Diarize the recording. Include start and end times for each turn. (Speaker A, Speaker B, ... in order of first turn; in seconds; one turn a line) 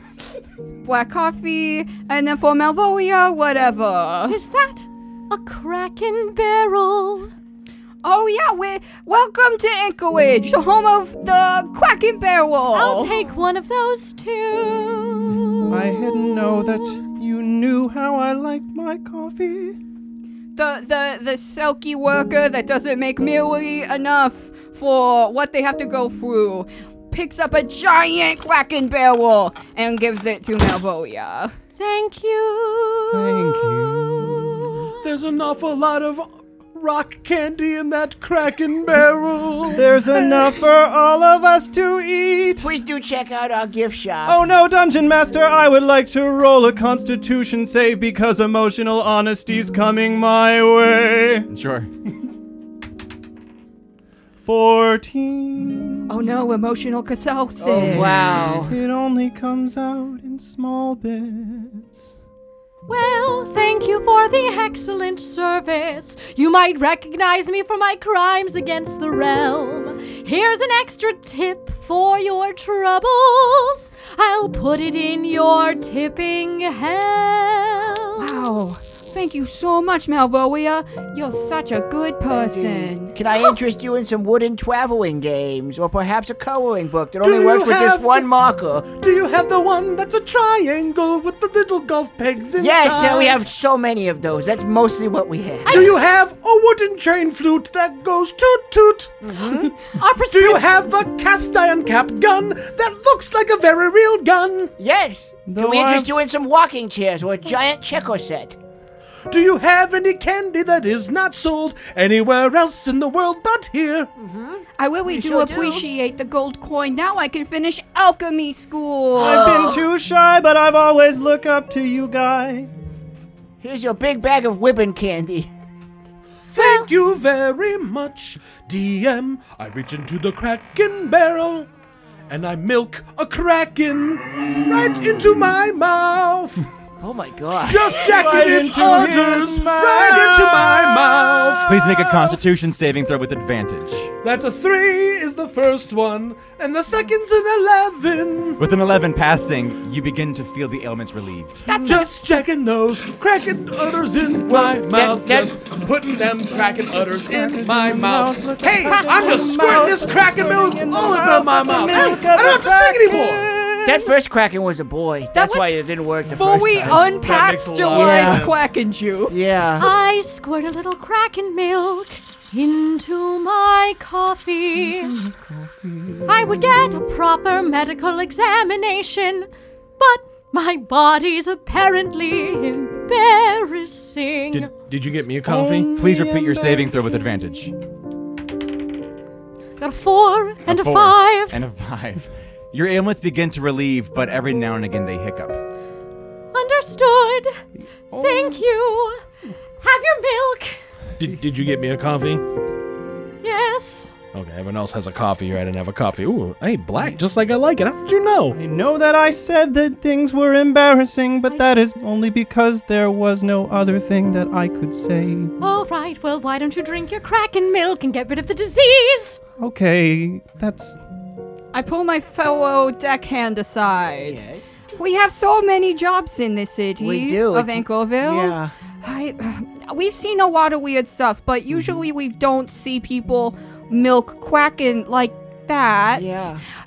Speaker A: 0.8-4.4
Speaker B: 4.3-7.3
Speaker A: 8.0-13.1
Speaker B: 12.7-17.0
Speaker C: 15.7-19.8
Speaker A: 20.6-31.5
Speaker B: 31.8-35.0
Speaker C: 33.1-34.8
Speaker D: 35.0-40.5
Speaker C: 39.7-42.7
Speaker E: 42.6-44.4
Speaker C: 44.2-51.5
Speaker F: 51.5-51.9
Speaker C: 54.4-56.1
Speaker A: 56.1-58.5
Speaker E: 57.6-58.8
Speaker C: 57.8-62.0
Speaker B: 62.9-78.3
Speaker A: 78.2-83.1
Speaker E: 82.3-88.9
Speaker D: 87.2-88.3
Speaker D: 88.8-93.4
Speaker E: 92.6-95.9
Speaker B: 95.6-95.9
Speaker D: 95.7-99.2
Speaker E: 99.2-99.7
Speaker B: 99.9-100.7
Speaker D: 100.3-104.7
Speaker E: 104.8-108.6
Speaker C: 105.5-106.1
Speaker D: 109.3-114.1
Speaker E: 114.2-115.8
Speaker A: 114.8-119.7
Speaker E: 119.2-119.8
Speaker C: 119.2-122.7
Speaker E: 123.6-125.5
Speaker D: 126.5-131.7
Speaker B: 126.5-126.9
Speaker D: 132.3-136.7
Speaker E: 137.0-138.1
Speaker D: 137.6-142.1
Speaker C: 138.0-142.2
Speaker F: 141.7-144.1
Speaker D: 144.2-148.6
Speaker F: 148.6-151.7
Speaker A: 151.7-152.1
Speaker D: 151.8-163.5
Speaker E: 154.4-155.6
Speaker C: 157.2-164.1
Speaker B: 158.8-159.9
Speaker E: 163.8-167.1
Speaker A: 165.3-169.6
Speaker D: 166.4-168.6
Speaker E: 167.9-168.5
Speaker E: 169.3-169.9
Speaker B: 169.8-175.1
Speaker C: 174.8-176.7
Speaker B: 176.3-179.5
Speaker B: 180.0-184.7
Speaker D: 184.5-185.9
Speaker C: 185.4-186.8
Speaker F: 185.9-187.7
Speaker B: 189.8-191.6
Speaker F: 190.7-195.6
Speaker B: 196.5-197.6
Speaker C: 198.1-198.6
Speaker B: 198.2-199.2
Speaker B: 199.8-200.8
Speaker D: 201.2-202.4
Speaker B: 203.4-204.1
Speaker D: 204.3-208.6
Speaker C: 208.5-215.5
Speaker B: 215.6-219.4
Speaker C: 219.6-221.0
Speaker A: 221.7-224.4
Speaker E: 224.2-224.7
Speaker A: 224.9-236.5
Speaker E: 227.0-228.7
Speaker E: 231.7-232.1
Speaker E: 236.1-236.6